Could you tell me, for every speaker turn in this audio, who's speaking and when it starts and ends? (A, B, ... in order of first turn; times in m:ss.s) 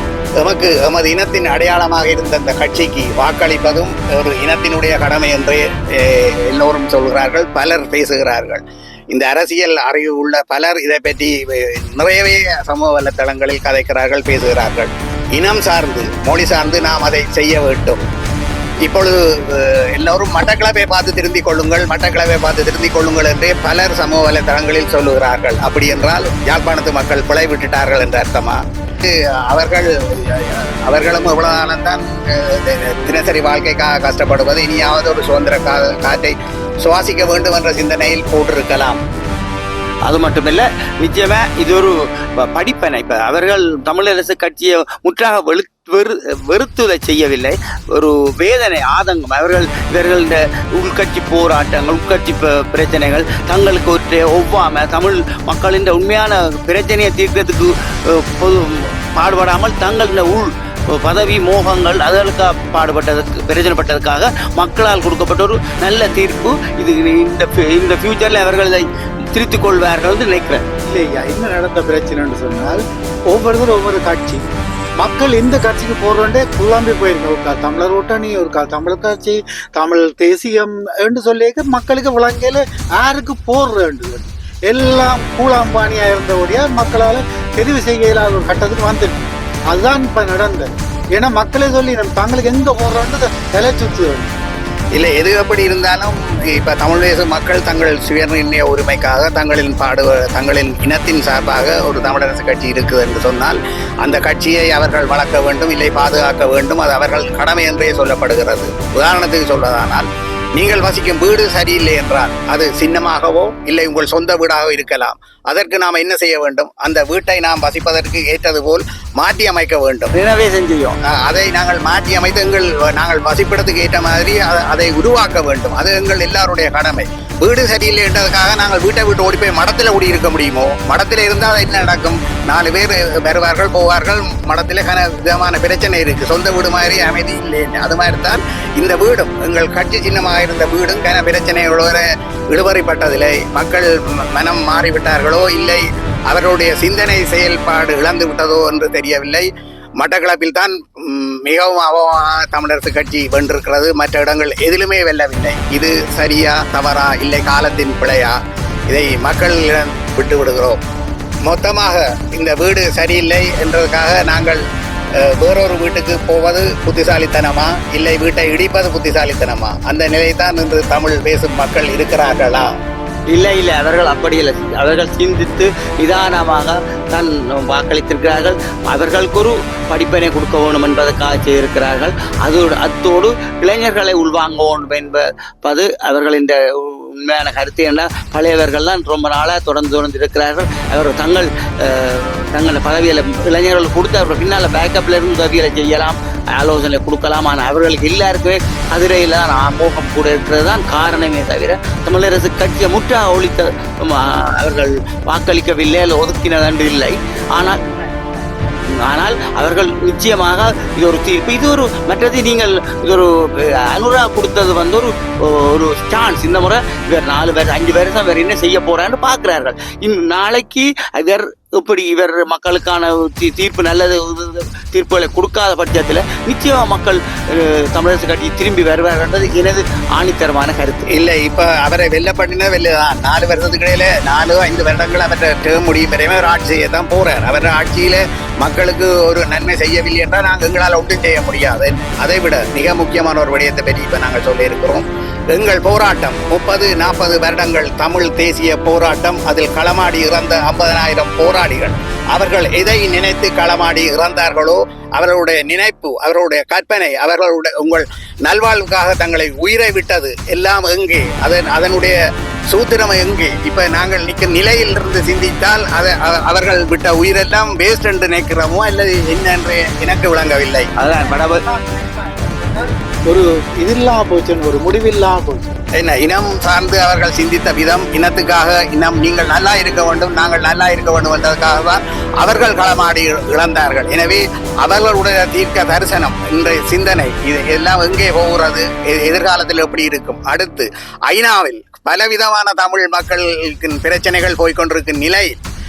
0:00.4-0:18.0 A
0:18.9-0:39.0 A
0:40.1-1:10.6 B
1:10.9-1:14.4 C
1:15.0-1:34.4 C
1:35.0-2:00.1 A
2:00.1-2:01.0 B
2:01.1-2:40.8 A
2:41.4-2:44.6 A
2:45.2-2:52.7 A
2:53.3-3:27.8 B
3:28.8-3:51.1 B
3:51.1-4:22.2 A
4:22.7-4:30.9 A
4:31.0-4:31.6 B
4:31.1-4:35.8 C
4:36.0-4:55.6 A